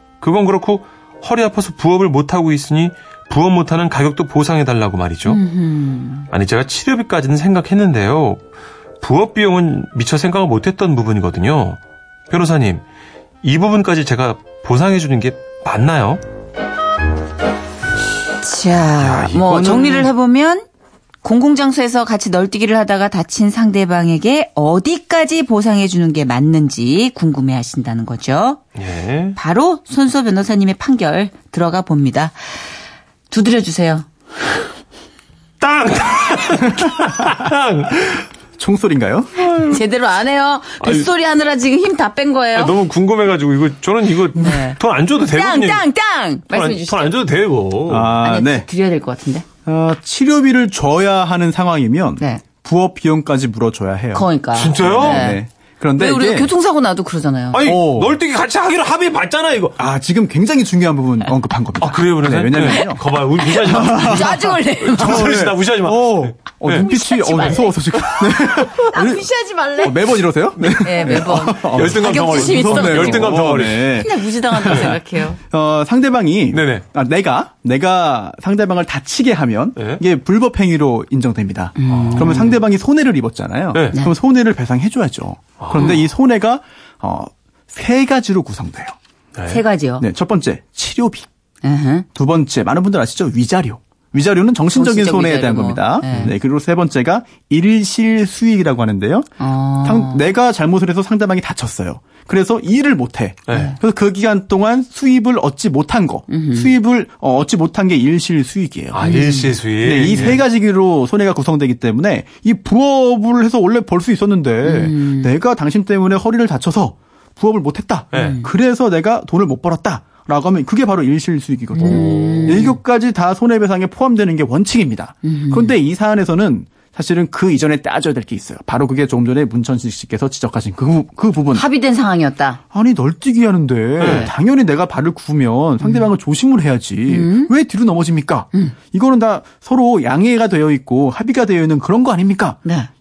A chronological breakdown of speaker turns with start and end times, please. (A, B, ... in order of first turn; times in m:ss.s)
0:00.2-0:05.4 A
0:05.3-0:06.3 B
0:06.3-0:08.4 A
0:09.0-0:12.8 A
0:13.4-0:16.2 A
0:18.4-0:20.7 B
0:19.0-0:20.1 A
0:21.2-0:28.6 B
0:28.8-0:29.4 A
0:29.4-0:32.4 B
0:33.3-0:34.1 B
0:35.6-0:38.3 A
0:38.6-0:39.6 C
0:39.5-0:39.8 A
0:39.6-0:42.8 B
0:40.8-0:41.1 A
0:42.5-0:45.9 A
0:44.3-0:47.2 B
0:46.5-0:48.2 A
0:47.9-0:48.7 C
0:48.2-0:49.4 B
0:49.7-0:56.5 C
0:54.1-0:55.4 B
0:54.5-0:55.4 A
0:56.0-0:57.6 B
0:57.5-0:59.8 A
0:57.6-0:58.2 C
0:59.8-1:03.0 C
1:01.8-1:06.9 A
1:03.4-1:05.3 B
1:03.7-1:04.4 C
1:04.9-1:29.0 C
1:06.7-1:13.4 B
1:11.0-1:15.0 A
1:13.9-1:15.4 B
1:16.5-1:16.8 A
1:19.8-1:20.0 A
1:21.8-1:22.6 B
1:21.9-1:22.6 A
1:23.7-1:24.0 A
1:25.6-1:26.0 A
1:25.8-1:26.1 B
1:29.4-1:29.6 A
1:29.5-1:30.0 B
1:30.0-1:31.3 C
1:31.6-1:32.1 B
1:32.2-1:39.3 C
1:34.7-1:36.4 B
1:36.1-1:36.4 A
1:39.4-1:40.3 B
1:39.8-1:49.1 C
1:43.5-1:43.8 A
1:46.3-1:46.7 B
1:48.9-1:50.4 A
1:49.0-1:49.6 B
1:49.8-2:11.6 C
1:54.6-1:55.3 B
1:58.1-1:58.4 A
1:58.1-1:58.5 B
2:01.8-2:02.8 B
2:01.8-2:02.7 A
2:05.2-2:05.8 B
2:11.5-2:12.6 B
2:12.7-2:22.6 C
2:14.0-2:14.3 A
2:14.0-2:14.3 B
2:15.8-2:16.1 B
2:17.1-2:17.5 B
2:22.6-2:22.9 B